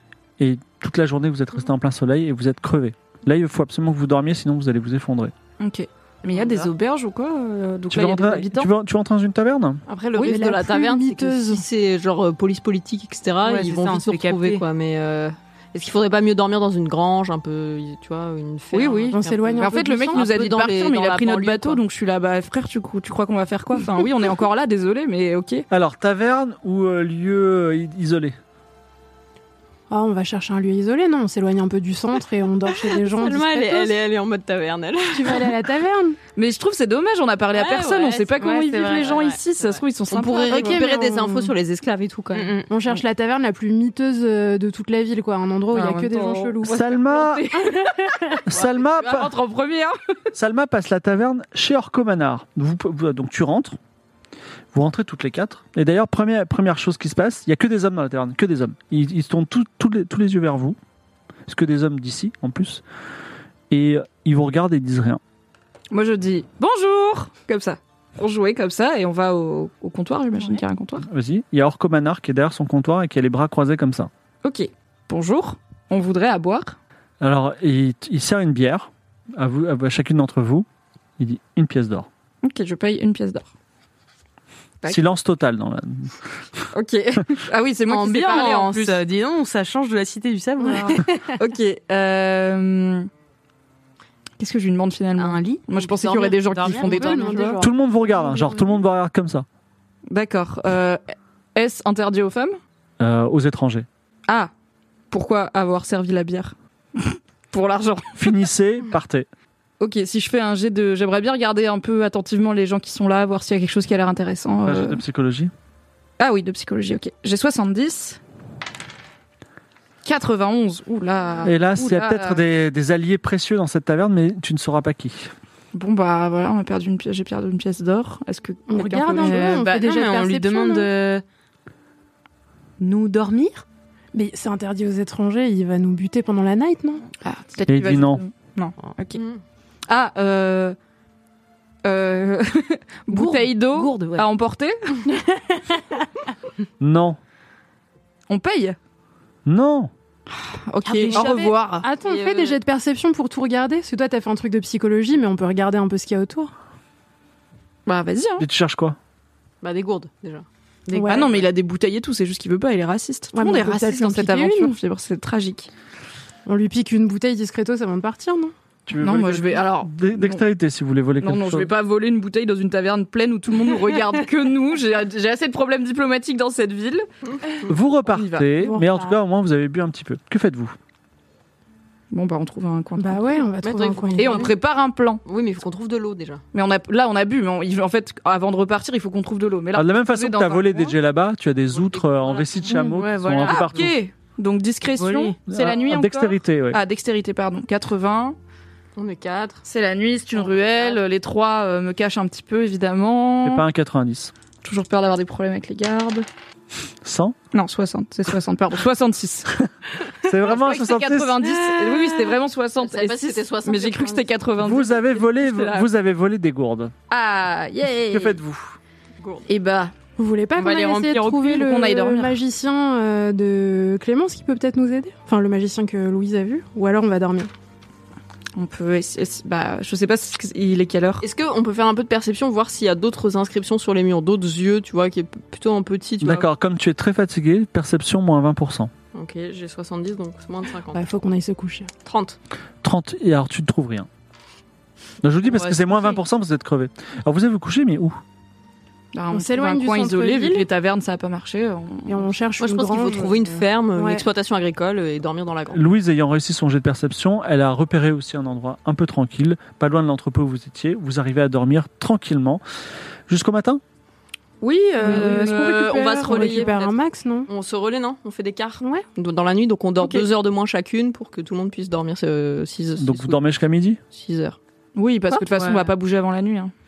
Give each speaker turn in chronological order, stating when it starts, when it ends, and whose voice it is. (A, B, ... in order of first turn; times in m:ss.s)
0:00.4-0:05.3 A
0:05.6-0:08.7 B
0:06.3-0:06.7 C
0:07.9-0:09.8 A
0:09.9-0:21.8 D
0:10.1-0:11.6 E
0:13.4-0:14.6 C
0:18.7-0:25.6 B
0:19.1-0:20.2 E
0:25.7-0:28.4 A
0:29.9-0:34.0 E
0:32.9-0:35.6 D
0:35.1-0:36.2 E
0:36.4-0:40.8 B
0:37.5-0:42.6 D
0:38.4-0:39.0 C
0:40.4-0:41.5 E
0:42.3-0:42.7 C
0:42.7-0:46.8 E
0:45.7-0:50.0 B
0:46.7-0:47.5 A
0:48.4-0:49.3 A
0:48.5-0:49.1 D
0:50.3-0:53.8 A
0:54.7-1:00.8 A
1:01.5-1:02.8 A
1:03.7-1:05.2 A
1:05.9-1:11.0 B
1:11.0-1:14.1 A
1:14.4-1:16.8 B
1:17.2-1:20.6 A
1:21.2-1:22.1 A
1:22.4-1:23.5 B
1:24.9-1:26.7 A
1:26.7-1:29.0 B
1:27.8-1:31.4 C
1:31.3-1:33.1 B
1:34.4-1:37.6 B
1:35.2-1:37.6 C
1:36.8-1:38.4 E
1:37.6-1:39.4 A
1:40.1-1:41.0 B
1:41.5-1:42.6 B
1:43.0-1:43.9 A
1:45.1-1:48.3 B
1:48.2-1:49.3 A
1:49.8-1:55.0 B
1:54.6-1:55.5 A
1:56.2-1:58.2 B
2:00.0-2:02.4 B
2:01.4-2:05.3 A
2:05.7-2:09.6 B
2:08.7-2:10.9 E
2:09.2-2:11.2 C
2:12.8-2:13.6 C
2:14.1-2:17.1 E
2:17.2-2:19.2 B
2:17.7-2:18.2 A
2:19.1-2:19.4 D
2:19.9-2:20.8 B
2:21.8-2:25.0 B
2:23.1-2:24.3 C
2:26.8-2:27.2 A
2:28.3-2:28.8 B
2:29.4-2:29.9 A
2:30.4-2:31.8 B
2:30.8-2:31.8 C
2:31.1-2:36.5 E
2:32.0-2:32.6 D
2:37.8-2:38.4 B
2:38.4-2:39.0 A
2:39.6-2:40.4 D
2:40.9-2:41.2 C
2:40.9-2:41.4 E
2:41.0-2:45.7 B
2:43.3-2:44.7 E
2:46.4-2:48.5 E
2:48.9-2:51.7 A
2:49.0-2:50.4 B
2:51.2-2:57.1 B
2:57.7-3:00.8 A
2:58.1-2:58.5 B
2:58.6-2:59.2 E
3:02.1-3:03.2 B
3:03.0-3:04.5 E
3:03.6-3:04.5 D
3:04.2-3:05.2 B
3:05.2-3:06.4 D
3:06.5-3:11.0 B
3:09.7-3:14.0 A
3:11.7-3:12.9 D
3:12.9-3:18.4 B
3:13.0-3:13.7 C
3:15.0-3:15.4 C
3:15.5-3:16.8 A
3:19.0-3:19.6 D
3:19.6-3:23.6 B
3:20.3-3:21.0 D
3:23.4-3:24.3 A
3:24.6-3:26.2 B
3:27.0-3:27.4 A
3:27.5-3:29.6 B
3:30.2-3:31.5 A
3:30.3-3:35.9 B
3:32.8-3:34.4 D
3:34.6-3:36.9 A
3:37.1-3:38.4 B
3:38.1-3:38.8 A
3:39.2-3:39.5 D
3:39.5-3:39.9 B
3:40.2-3:47.5 E
3:40.6-3:40.9 C
3:40.7-3:42.4 B
3:48.6-3:51.2 B
3:51.2-3:56.5 D
3:56.2-3:58.9 A
3:59.1-4:01.1 D
4:00.9-4:01.9 E
4:02.0-4:02.4 D
4:02.8-4:04.1 A
4:05.2-4:08.2 A
4:05.5-4:06.2 D
4:09.1-4:12.3 B
4:09.3-4:10.7 E
4:12.1-4:14.2 E
4:12.6-4:15.8 D
4:15.7-4:22.6 A
4:23.3-4:23.8 A
4:24.6-4:26.7 B
4:25.0-4:27.5 E
4:25.0-4:33.4 D
4:28.8-4:29.1 E
4:30.0-4:30.3 B
4:33.0-4:34.0 A
4:34.1-4:34.6 D
4:34.9-4:36.7 B
4:35.5-4:35.9 C